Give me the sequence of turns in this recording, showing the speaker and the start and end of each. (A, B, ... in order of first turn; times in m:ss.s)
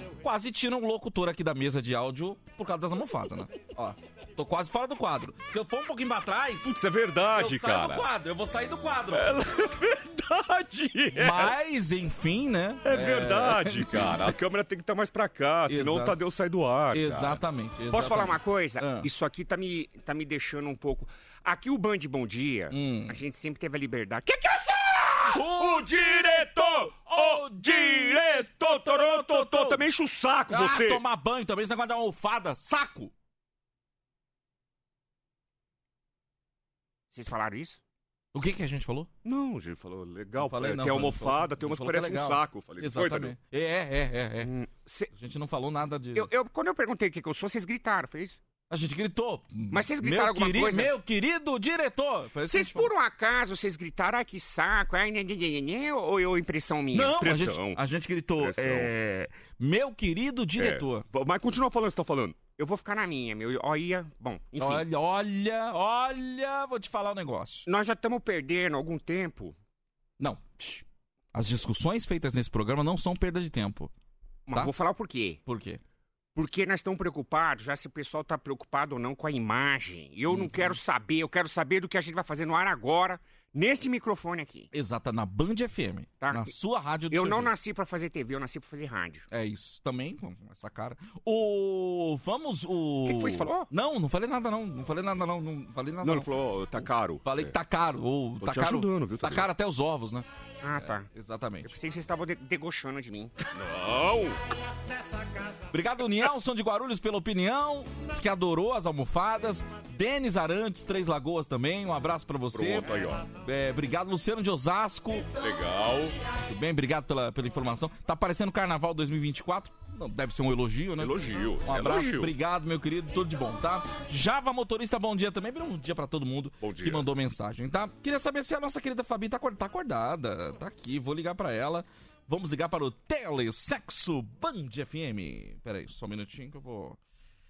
0:00.2-0:06.7 A
0:06.6-0:08.1 B
0:07.3-0:09.3 A
0:09.1-0:11.5 B
0:11.2-0:14.3 A
0:12.8-0:17.4 B
0:15.7-0:16.2 A
0:16.9-0:19.1 A
0:17.9-0:25.3 C
0:22.7-0:23.2 A
0:25.3-0:29.8 A
0:25.6-0:31.0 B
0:29.9-0:30.2 C
0:30.5-0:33.1 A
0:37.1-0:37.8 C
0:38.3-0:39.1 A
0:39.2-0:43.4 B
0:40.4-0:44.5 A
0:44.4-0:45.1 C
0:45.1-0:46.3 A
0:46.2-0:48.4 C
0:48.7-0:52.9 A
0:49.7-0:50.9 C
0:52.5-0:57.8 C
0:56.9-1:01.1 A
0:58.4-0:58.9 B
1:00.6-1:02.5 B
1:02.5-1:04.8 C
1:04.6-1:07.7 A
1:07.7-1:09.6 C
1:10.2-1:13.9 A
1:14.5-1:15.4 C
1:15.5-1:15.8 A
1:16.4-1:24.7 C
1:20.3-1:20.8 A
1:24.7-1:27.5 A
1:26.2-1:26.5 C
1:27.1-1:29.3 C
1:29.3-1:36.3 A
1:33.0-1:33.7 C
1:36.0-1:37.5 B
1:37.2-1:40.3 A
1:38.4-1:39.5 B
1:40.6-1:41.1 C
1:40.8-1:41.7 A
1:41.6-1:43.4 C
1:43.5-1:44.4 B
1:45.7-1:55.4 A
1:52.5-1:53.3 B
1:55.4-1:56.2 B
1:56.4-2:17.0 A
2:01.0-2:02.3 B
2:06.6-2:07.1 B